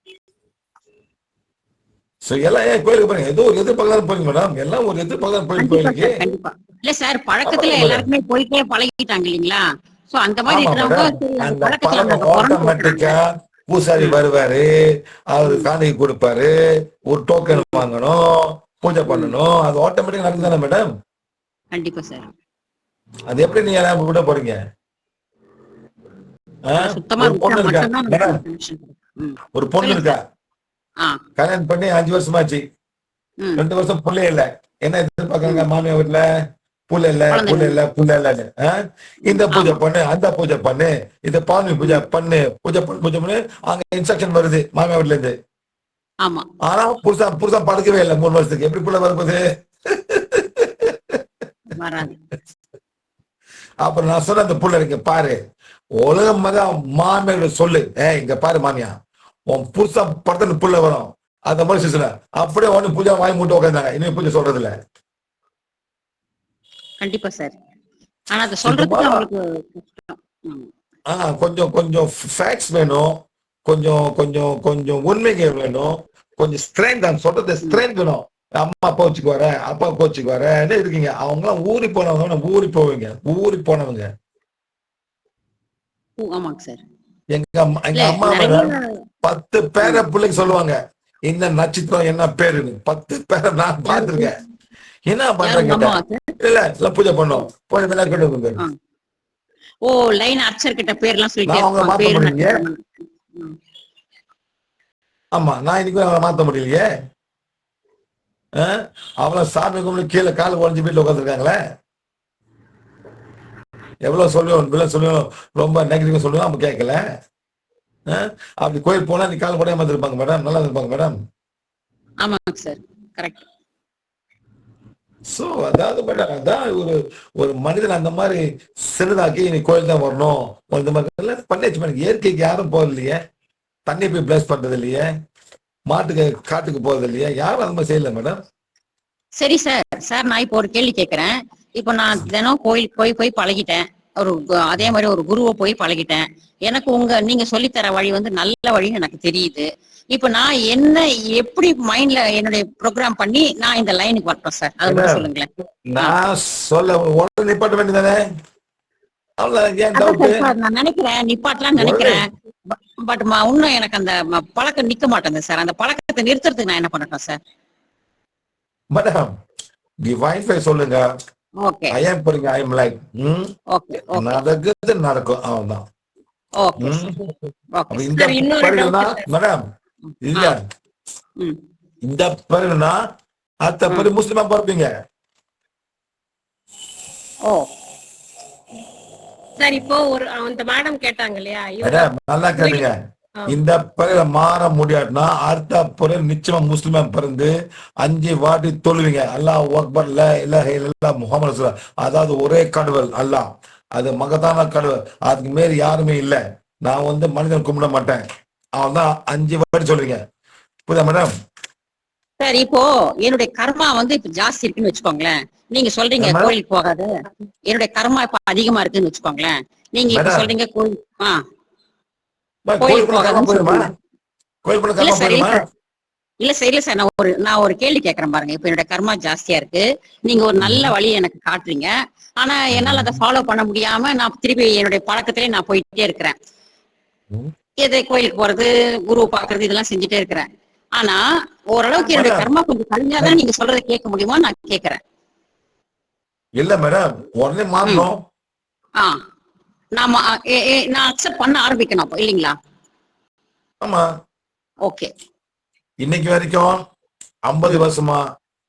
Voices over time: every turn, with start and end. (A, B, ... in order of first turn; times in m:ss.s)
0:02.2-0:06.1 A
0:05.6-0:13.1 B
0:07.4-0:08.1 A
0:10.5-0:14.7 A
0:15.3-0:16.5 A
0:15.4-0:15.7 B
0:17.0-0:20.9 A
0:17.5-0:17.8 B
0:19.1-0:19.4 B
0:21.7-0:22.3 B
0:23.3-0:24.6 A
0:26.7-0:28.4 A
0:26.8-0:30.2 B
0:29.5-0:30.2 A
0:31.4-0:32.6 A
0:33.6-0:36.3 A
0:36.9-0:45.3 A
0:37.3-0:37.8 B
0:39.3-0:39.8 B
0:46.6-0:51.2 A
0:51.7-0:52.2 B
0:53.8-0:55.4 A
0:56.0-0:59.0 A
0:59.5-1:04.7 A
1:07.0-1:07.6 B
1:08.3-1:10.7 B
1:08.6-1:09.2 A
1:11.1-1:24.1 A
1:26.2-1:26.8 B
1:27.3-1:28.7 A
1:28.0-1:28.9 B
1:29.2-1:34.3 A
1:33.9-1:34.3 B
1:35.1-1:38.6 A
1:35.4-1:36.2 B
1:39.8-1:42.8 B
1:41.5-1:42.6 A
1:45.3-1:46.9 A
1:48.6-1:51.6 A
1:54.0-1:57.0 A
1:58.1-2:01.2 A
2:02.2-2:03.4 B
2:05.3-2:13.2 A
2:13.9-2:15.1 A
2:15.9-2:18.4 A
2:19.4-2:36.1 B
2:34.8-2:35.2 A
2:35.8-2:38.2 A
2:39.4-2:40.4 A
2:39.9-2:47.4 B
2:41.8-2:42.2 A
2:48.9-2:49.3 A
2:50.0-2:51.0 A
2:51.6-2:52.0 B
2:51.9-2:53.5 A
2:53.7-2:54.4 B
2:54.1-2:55.8 A
2:56.6-2:57.1 B
2:56.8-2:57.3 A
2:57.8-2:58.1 B
2:57.9-2:59.6 A
2:58.1-2:59.2 C
3:00.2-3:00.6 A
3:02.0-3:03.0 A
3:03.6-3:04.9 A
3:09.6-3:12.8 C
3:11.8-3:13.0 A
3:13.5-3:17.5 A
3:18.0-3:28.2 A
3:28.8-3:30.2 A
3:30.9-3:31.3 A
3:32.4-3:37.1 B
3:36.2-3:36.5 A
3:37.7-3:41.4 B
3:40.1-3:40.5 A
3:42.7-3:43.9 A
3:42.8-3:43.9 B
3:44.6-3:45.6 A
3:45.0-3:45.6 B
3:46.4-3:56.4 B
3:50.6-3:50.9 A
3:52.7-3:53.2 A
3:57.8-4:05.0 B
4:02.0-4:02.4 A
4:06.6-4:08.2 A
4:10.0-4:12.5 B
4:16.0-4:16.8 A
4:17.5-4:18.2 A